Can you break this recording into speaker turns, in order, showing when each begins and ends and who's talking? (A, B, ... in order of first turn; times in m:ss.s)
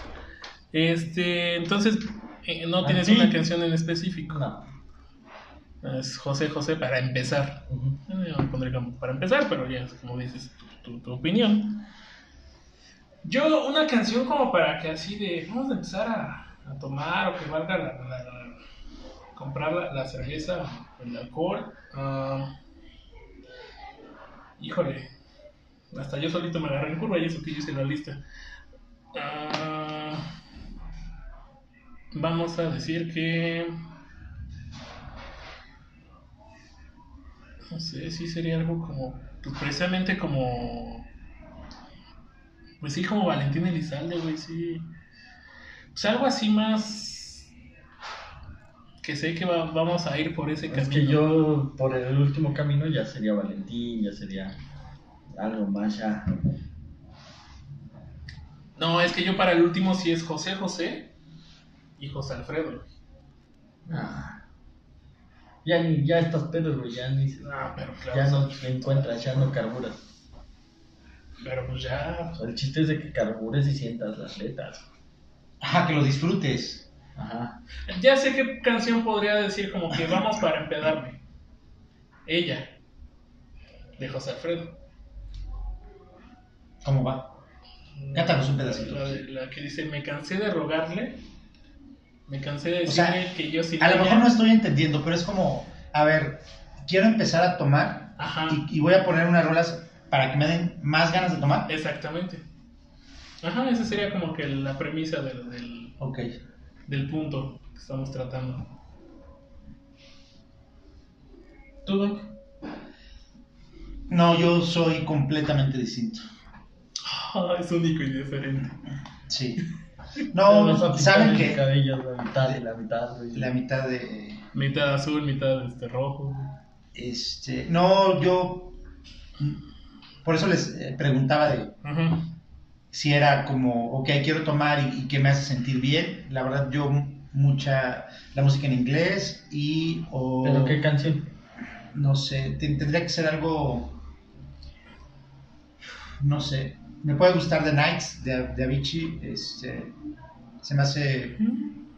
0:00.7-0:04.4 A
0:02.8-0:03.4 B
0:04.3-0:04.6 B
0:05.8-0:11.9 A
0:07.7-0:08.0 B
0:13.2-0:18.6 A
0:19.4-0:22.5 A
0:24.6-0:25.1 A
0:25.9-0:28.2 A
0:29.1-0:30.2 A
0:32.1-0:33.8 A
0:37.7-0:41.1 A
0:42.8-0:44.9 A
0:45.9-0:47.5 A
0:49.0-0:51.3 A
0:50.7-0:54.6 B
0:55.3-0:56.4 B
0:58.8-1:01.1 A
1:02.0-1:02.9 A
1:03.9-1:04.4 B
1:05.6-1:07.5 B
1:07.4-1:08.6 A
1:08.1-1:10.0 B
1:11.4-1:12.4 A
1:12.4-1:14.9 B
1:15.6-1:16.9 C
1:17.2-1:17.6 B
1:17.9-1:21.2 A
1:22.3-1:22.7 A
1:24.0-1:24.8 A
1:26.8-1:27.4 C
1:28.0-1:31.2 A
1:28.1-1:29.2 C
1:32.3-1:34.3 A
1:32.9-1:33.2 C
1:33.8-1:41.7 C
1:38.2-1:38.6 A
1:41.7-1:42.4 A
1:43.4-1:46.0 A
1:46.0-1:46.3 C
1:46.9-1:48.7 A
1:51.9-1:52.3 B
1:54.1-1:56.2 C
1:57.0-1:58.8 A
1:59.3-1:59.6 C
2:00.3-2:01.6 C
2:00.4-2:03.5 B
2:03.3-2:04.4 C
2:04.5-2:06.5 A
2:06.9-2:08.8 C
2:10.2-2:11.7 C
2:11.8-2:12.3 A
2:12.9-2:20.8 C
2:20.4-2:21.3 B
2:21.9-2:24.0 C
2:26.2-2:30.0 C
2:30.6-2:31.4 C
2:31.4-2:31.8 A